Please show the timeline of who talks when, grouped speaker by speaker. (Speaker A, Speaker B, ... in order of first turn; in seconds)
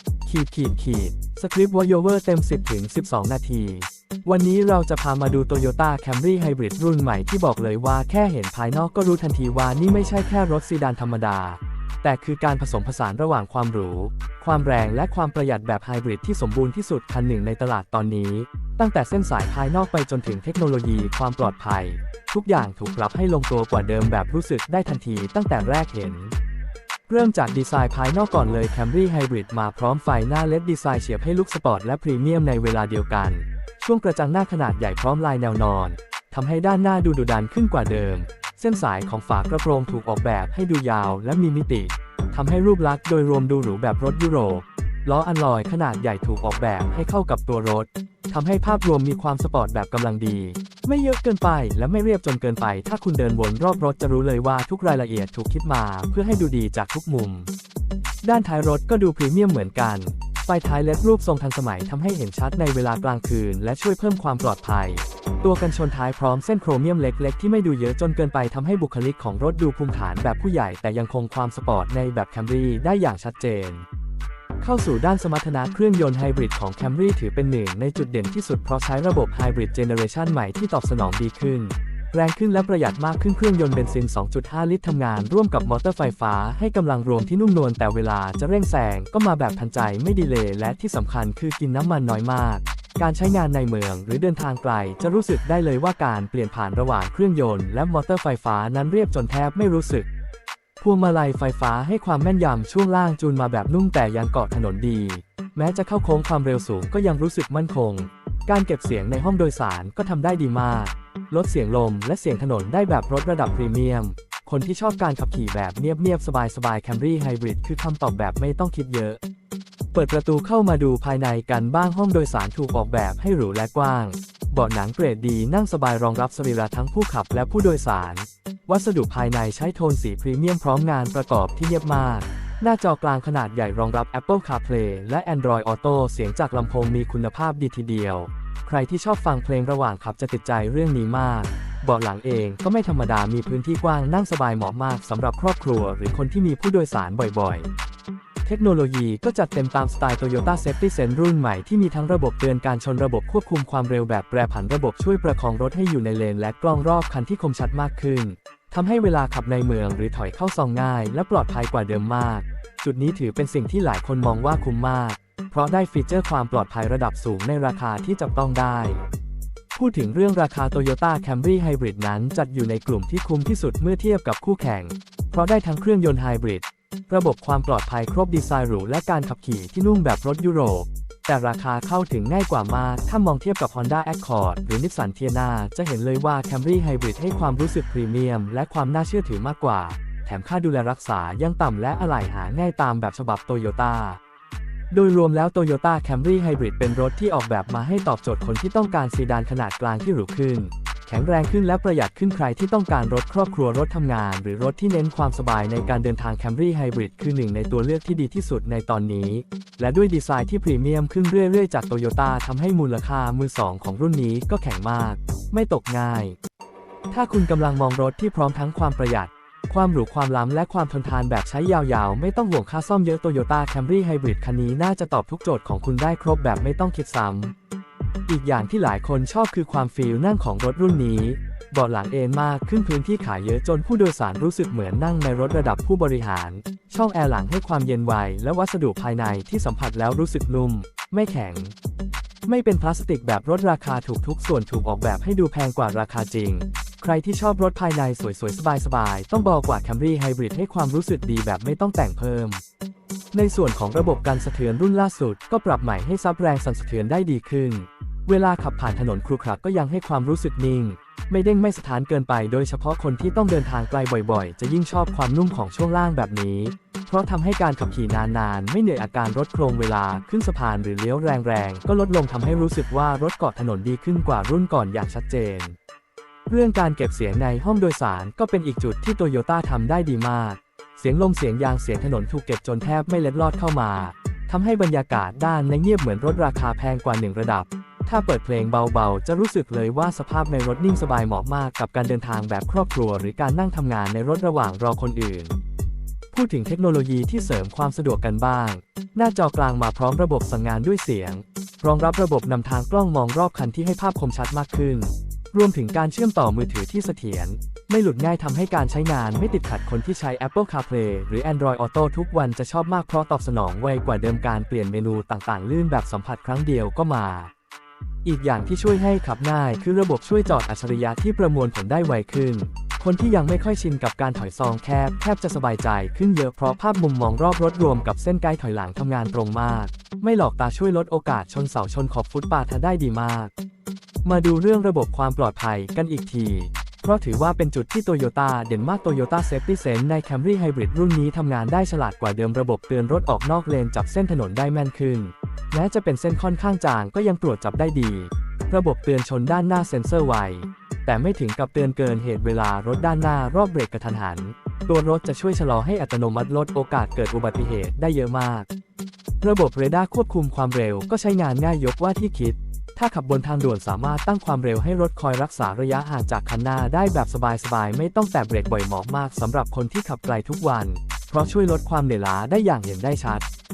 Speaker A: 0.2-26.4, 27.1-57.5, 58.2-73.8, 74.6-100.1, 100.8-119.2, 119.9-147.7, 148.4-169.0, 169.8-194.2, 194.9-216.4, 217.1-227.5, 228.3-241.7, 242.5-252.6, 253.3-275.8, 276.5-295.6, 296.3-317.5, 318.2-333.5, 334.2-358.7, 359.4-373.4